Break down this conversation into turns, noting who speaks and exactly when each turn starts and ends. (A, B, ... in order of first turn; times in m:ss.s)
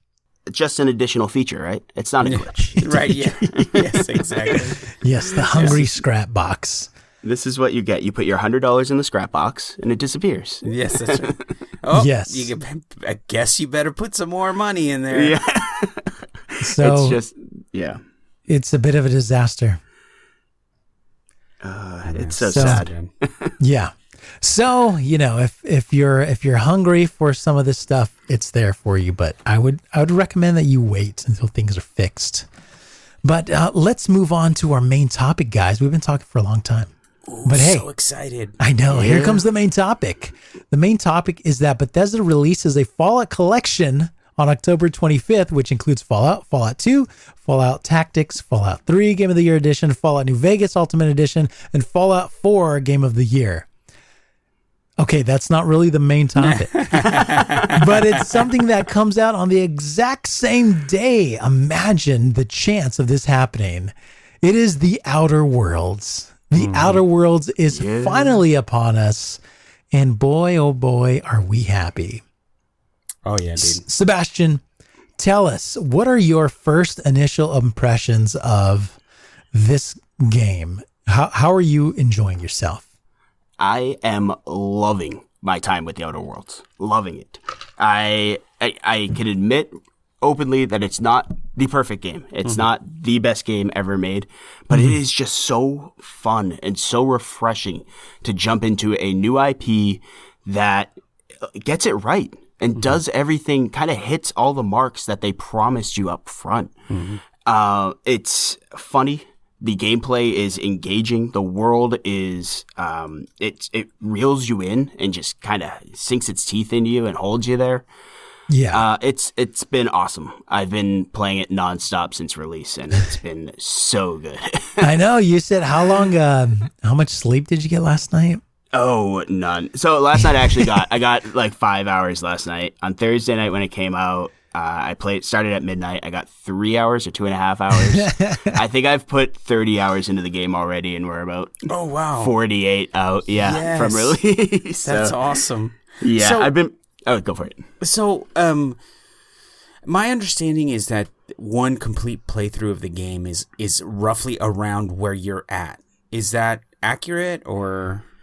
0:00.5-0:04.7 A
0:02.2-0:04.8 B
0:05.0-0:06.9 C
0:05.5-0:05.8 A
0:07.2-0:11.4 A
0:10.6-0:15.4 B
0:11.9-0:12.5 C
0:15.1-0:18.0 A
0:16.6-0:17.2 C
0:18.5-0:19.8 C
0:21.6-0:23.6 A
0:22.0-0:23.1 B
0:22.5-0:22.8 C
0:23.6-0:32.5 C
0:33.2-0:36.9 C
0:37.3-0:38.6 B
0:37.4-0:37.9 C
0:38.6-0:53.7 C
0:38.9-0:39.4 A
0:55.0-1:09.4 C
0:56.5-0:57.8 B
1:06.5-1:07.0 B
1:07.7-1:08.4 A
1:09.9-1:12.2 C
1:13.2-1:13.8 B
1:13.6-1:14.6 C
1:15.2-1:19.0 C
1:19.5-1:22.8 C
1:23.6-1:46.8 A
1:46.9-1:47.2 B
1:47.4-1:57.8 A
1:58.5-1:58.8 C
1:58.7-2:04.9 A
2:04.8-2:08.4 C
2:08.7-2:25.2 A
2:17.7-2:18.6 C
2:21.7-2:22.3 B
2:23.4-2:24.2 B
2:24.8-2:26.5 B
2:26.0-2:27.7 A
2:27.8-2:28.8 B
2:29.8-2:38.0 B